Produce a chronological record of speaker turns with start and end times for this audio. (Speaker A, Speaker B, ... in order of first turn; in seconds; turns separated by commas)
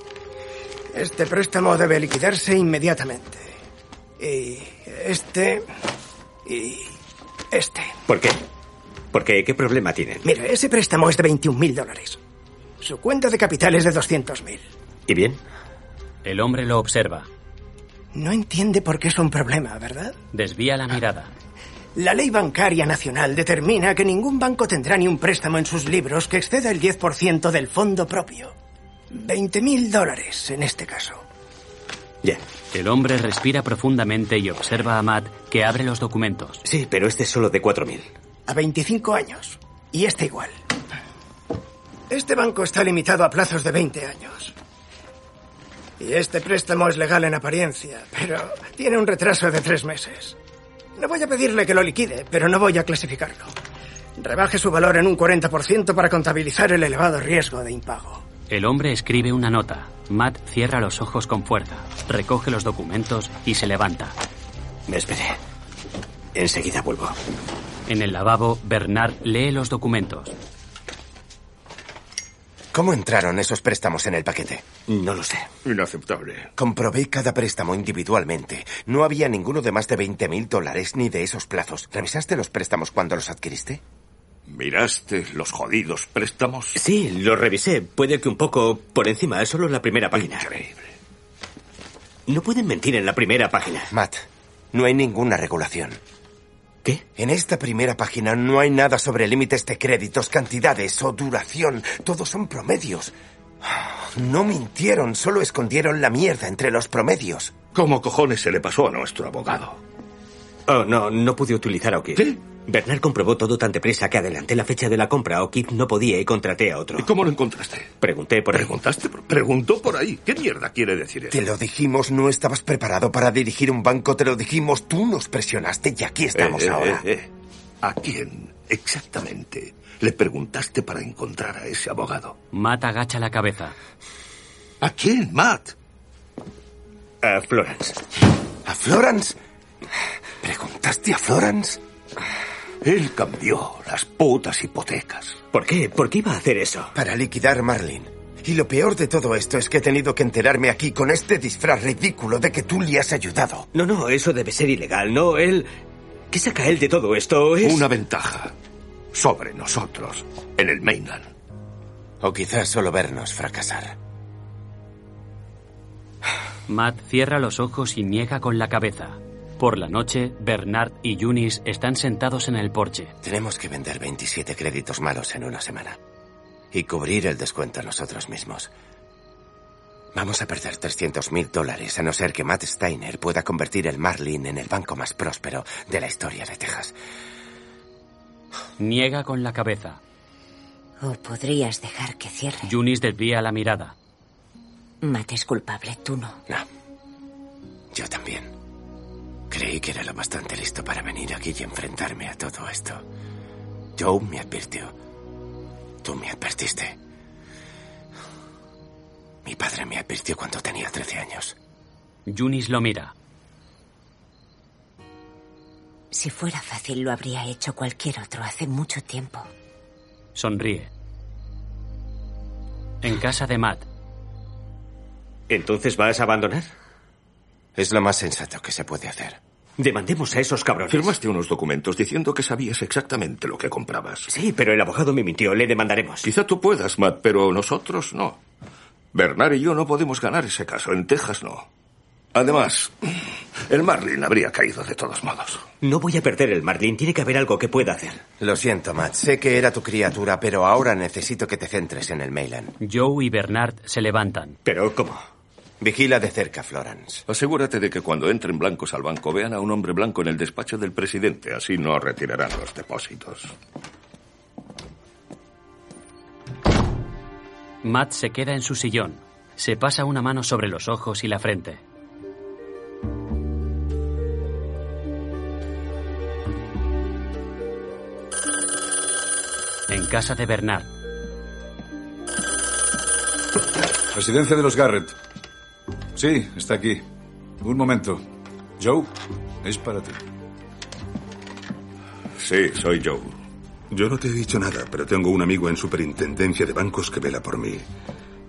Speaker A: 0.9-3.5, Speaker A: 4.2-5.7, Speaker A: 6.5-7.0, Speaker A: 7.5-8.0, Speaker B: 8.1-8.4, Speaker B: 9.1-10.3, Speaker A: 10.2-12.2, Speaker A: 12.8-14.7, Speaker B: 15.1-15.4, Speaker C: 16.2-17.3, Speaker A: 18.1-20.1, Speaker C: 20.3-21.3, Speaker A: 21.9-28.5, Speaker A: 29.1-31.2, Speaker C: 32.7-36.6, Speaker B: 36.6-38.1, Speaker A: 38.5-40.5, Speaker A: 42.1-44.5, Speaker A: 46.0-50.4, Speaker A: 51.0-53.5, Speaker A: 54.2-58.2, Speaker C: 58.5-64.2, Speaker B: 64.9-65.4, Speaker B: 66.3-67.2, Speaker C: 67.9-70.3, Speaker D: 72.7-74.6, Speaker B: 74.9-75.5, Speaker E: 75.7-76.5, Speaker D: 76.6-83.8, Speaker E: 84.5-86.8, Speaker B: 86.8-90.5, Speaker E: 90.2-90.9, Speaker B: 92.3-93.9, Speaker D: 93.9-96.0, Speaker D: 97.2-107.6, Speaker E: 107.7-109.8, Speaker B: 110.7-117.1, Speaker E: 117.0-117.9, Speaker B: 118.0-118.7, Speaker E: 118.5-121.4, Speaker D: 121.3-127.0, Speaker E: 126.3-127.3, Speaker E: 127.8-132.4, Speaker C: 132.5-133.7, Speaker E: 134.8-135.7, Speaker B: 137.2-138.0, Speaker D: 138.7-139.4, Speaker D: 140.4-141.8, Speaker E: 142.8-145.4, Speaker B: 145.5-146.9, Speaker D: 146.9-153.7, Speaker B: 153.7-155.7, Speaker B: 156.3-157.9, Speaker E: 157.6-158.5, Speaker E: 159.1-161.3, Speaker D: 162.2-163.9, Speaker C: 166.7-173.1, Speaker D: 173.2-176.0, Speaker D: 176.7-178.7, Speaker D: 180.1-186.9, Speaker C: 188.8-190.0, Speaker F: 191.0-192.7, Speaker C: 192.6-193.9, Speaker F: 195.0-196.4, Speaker D: 197.9-198.5, Speaker D: 199.5-203.1, Speaker D: 203.9-204.9, Speaker D: 206.0-207.0, Speaker D: 209.4-211.6, Speaker C: 212.3-213.1, Speaker F: 216.1-219.5, Speaker C: 220.3-220.9, Speaker C: 223.0-223.8, Speaker B: 225.5-226.7, Speaker D: 227.8-229.4, Speaker B: 229.8-231.2, Speaker E: 230.9-234.3, Speaker B: 234.3-236.3, Speaker E: 236.2-238.4, Speaker E: 239.1-241.7, Speaker E: 242.3-245.6, Speaker B: 245.8-248.2, Speaker D: 248.4-252.7, Speaker C: 252.8-254.6, Speaker B: 254.7-255.2, Speaker D: 255.8-257.2, Speaker E: 257.3-263.5, Speaker C: 267.8-271.8, Speaker C: 279.9-280.9, Speaker G: 284.1-285.1, Speaker G: 286.2-287.0, Speaker G: 287.6-288.2, Speaker G: 288.8-289.1, Speaker G: 289.6-290.2, Speaker E: 292.4-293.4, Speaker H: 293.9-297.9